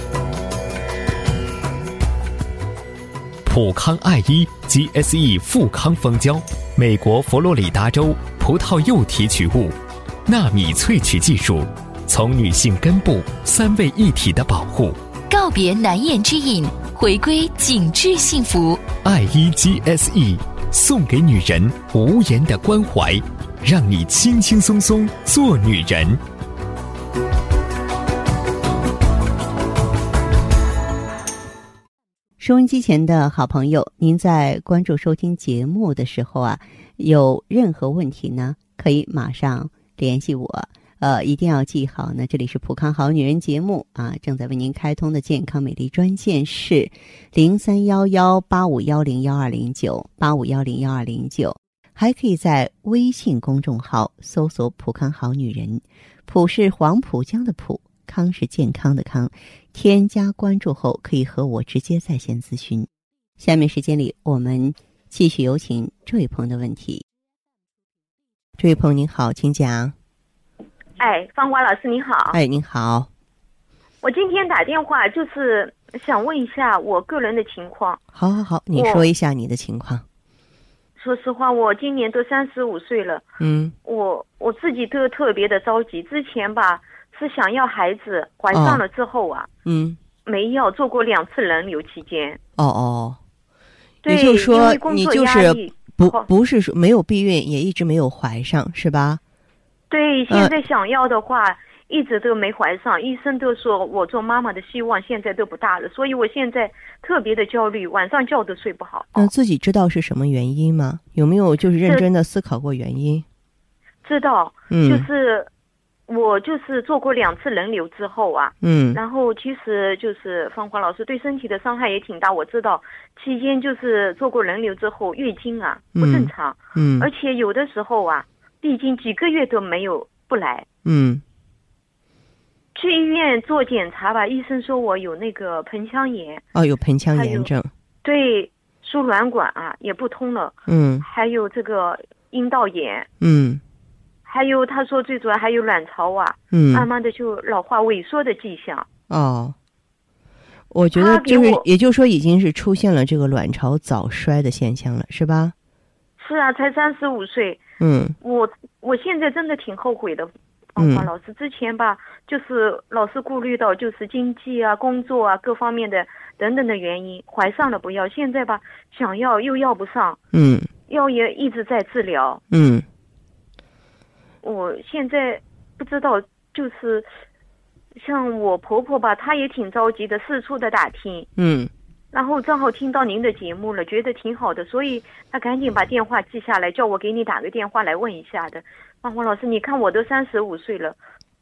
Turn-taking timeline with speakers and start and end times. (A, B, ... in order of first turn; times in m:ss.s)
0:03.4-0:15.0 A
0:15.3-0:18.9 B
0:18.9-0:26.2 A
0:32.4-1:07.0 C
1:08.6-1:09.9 C
1:11.0-1:12.4 D
1:12.3-1:13.1 C
1:14.0-1:18.0 D
1:18.1-1:20.0 C
1:18.7-1:19.0 D
1:21.0-1:23.2 D
1:23.4-1:23.7 C
1:23.8-1:29.5 D
1:28.5-1:28.8 C
1:29.6-1:30.0 C
1:30.2-1:32.4 D
1:32.6-1:33.2 C
1:34.0-1:36.2 D
1:34.0-1:39.2 C
1:39.9-1:49.3 D
1:40.3-1:40.5 C
1:49.1-1:53.2 C
1:54.0-1:55.5 D
1:54.7-1:55.1 C
1:56.1-2:10.6 D
1:58.6-1:59.0 C
2:06.0-2:07.1 C
2:10.8-2:11.2 C
2:12.7-2:16.4 D
2:16.5-2:17.7 C
2:17.1-2:17.5 D
2:18.0-2:23.1 D
2:20.7-2:21.0 C
2:23.2-2:23.6 C
2:24.2-2:28.8 D
2:26.5-2:26.9 C
2:29.1-2:29.6 C
2:30.7-2:35.5 C
2:30.9-2:31.6 D
2:36.2-2:37.6 D
2:37.8-2:38.2 C
2:38.2-2:50.2 D
2:40.8-2:41.1 C
2:50.3-2:50.7 C
2:50.9-2:52.4 D
2:52.5-2:52.9 C
2:54.4-2:57.1 D
2:57.9-3:01.3 D
3:01.4-3:01.7 C
3:02.1-3:11.0 D